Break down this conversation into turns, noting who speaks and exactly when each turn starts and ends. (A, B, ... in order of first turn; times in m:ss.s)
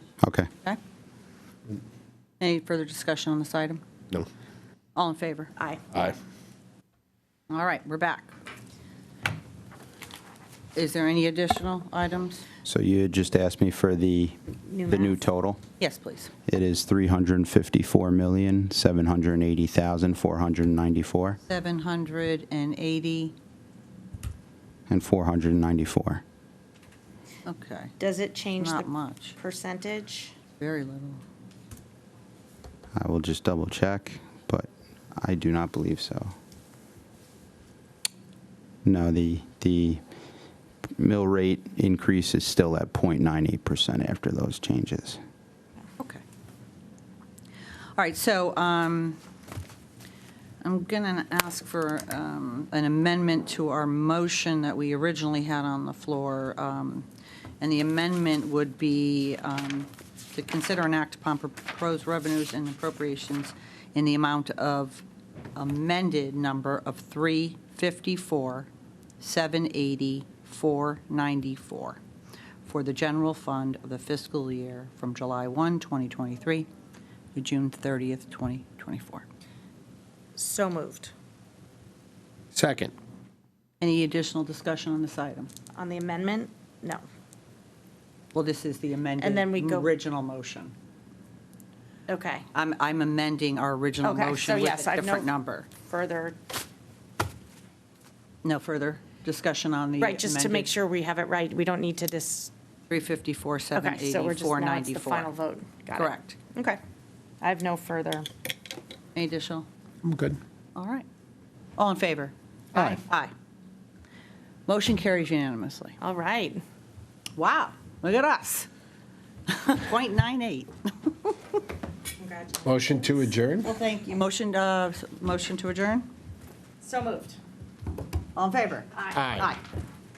0:00.2-0:00.5 A
0:02.4-0:03.8 B
0:05.0-0:05.5 B
0:05.6-0:06.1 C
0:07.5-0:08.3 B
0:10.7-0:12.5 B
0:12.6-0:15.6 A
0:14.7-0:15.3 C
0:15.8-0:16.3 B
0:16.5-0:21.4 A
0:21.5-0:23.3 B
0:24.9-0:26.2 A
0:27.4-0:27.9 B
0:28.0-0:30.4 C
0:28.6-0:29.3 B
0:30.6-0:31.2 B
0:33.0-0:36.3 A
0:38.8-0:40.0 A
0:41.0-0:45.2 A
0:48.0-0:49.2 B
0:50.6-0:57.1 B
0:57.6-1:08.7 B
1:09.2-1:12.0 B
1:12.6-1:16.7 B
1:17.3-1:19.2 B
1:20.4-1:21.1 C
1:22.5-1:22.9 D
1:23.8-1:25.5 B
1:25.8-1:27.0 C
1:28.3-1:30.7 B
1:29.2-1:29.9 C
1:32.1-1:32.4 C
1:32.5-1:35.7 B
1:34.0-1:36.4 C
1:38.4-1:40.7 B
1:40.0-1:42.5 C
1:42.9-1:45.3 B
1:43.7-1:46.8 C
1:46.0-1:46.4 B
1:47.4-1:48.3 C
1:49.2-1:49.7 B
1:50.0-1:50.4 D
1:50.8-1:51.1 B
1:51.8-1:53.3 B
1:54.7-1:56.0 B
1:56.0-1:56.6 C
1:57.4-1:58.7 B
1:59.5-2:01.4 B
2:02.2-2:02.7 C
2:02.6-2:03.7 D
2:03.6-2:06.1 B
2:06.8-2:07.4 C
2:08.3-2:09.6 B
2:09.1-2:09.5 D